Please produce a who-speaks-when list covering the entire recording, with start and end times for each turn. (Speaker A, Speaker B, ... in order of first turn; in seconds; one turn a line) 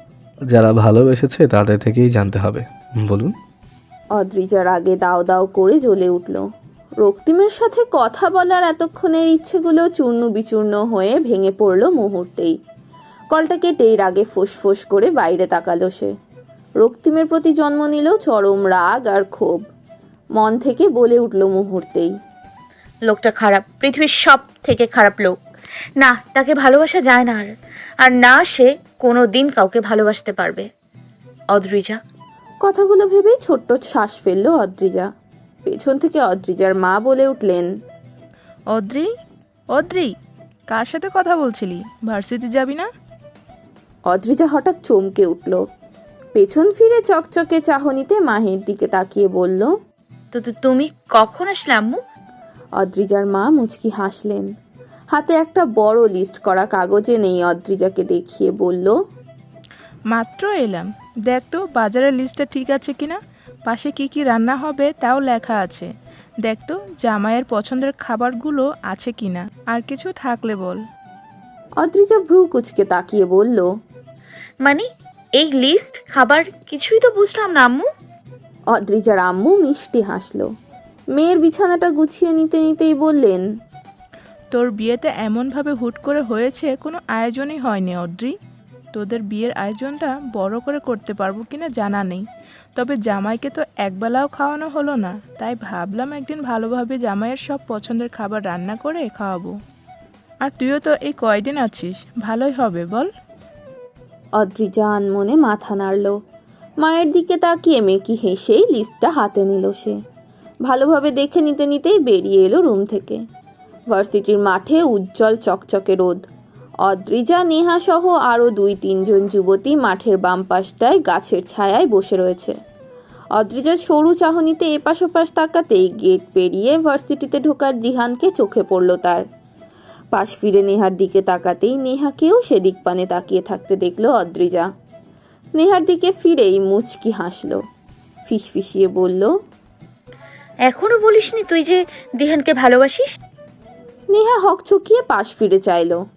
Speaker A: 0.5-3.3
Speaker B: 4.1-6.4
Speaker B: 7.0-12.5
Speaker B: 13.3-16.1
Speaker B: 16.8-19.6
Speaker B: 20.4-22.1
Speaker C: 23.1-25.4
Speaker C: 26.0-30.7
Speaker C: 31.5-32.0
Speaker B: 32.6-35.1
Speaker B: 35.6-37.7
Speaker D: 38.7-39.1
Speaker D: 39.7-40.1
Speaker D: 40.7-42.9
Speaker B: 44.1-45.6
Speaker B: 46.3-49.7
Speaker C: 50.3-52.0
Speaker B: 52.8-54.5
Speaker B: 55.1-58.9
Speaker D: 60.1-65.9
Speaker D: 66.4-70.8
Speaker B: 71.8-73.7
Speaker C: 75.4-77.9
Speaker B: 78.7-80.5
Speaker B: 81.1-83.4
Speaker D: 84.5-88.3
Speaker D: 88.9-99.6
Speaker D: 100.4-103.1
Speaker B: 104.3-106.2
Speaker B: 106.8-110.0
Speaker B: 110.7-113.2
Speaker B: 113.9-116.2
Speaker B: 116.8-122.5
Speaker B: 123.3-129.2
Speaker B: 130.1-134.7
Speaker B: 135.6-137.6
Speaker B: 138.2-139.3
Speaker C: 140.7-143.1
Speaker B: 144.1-146.0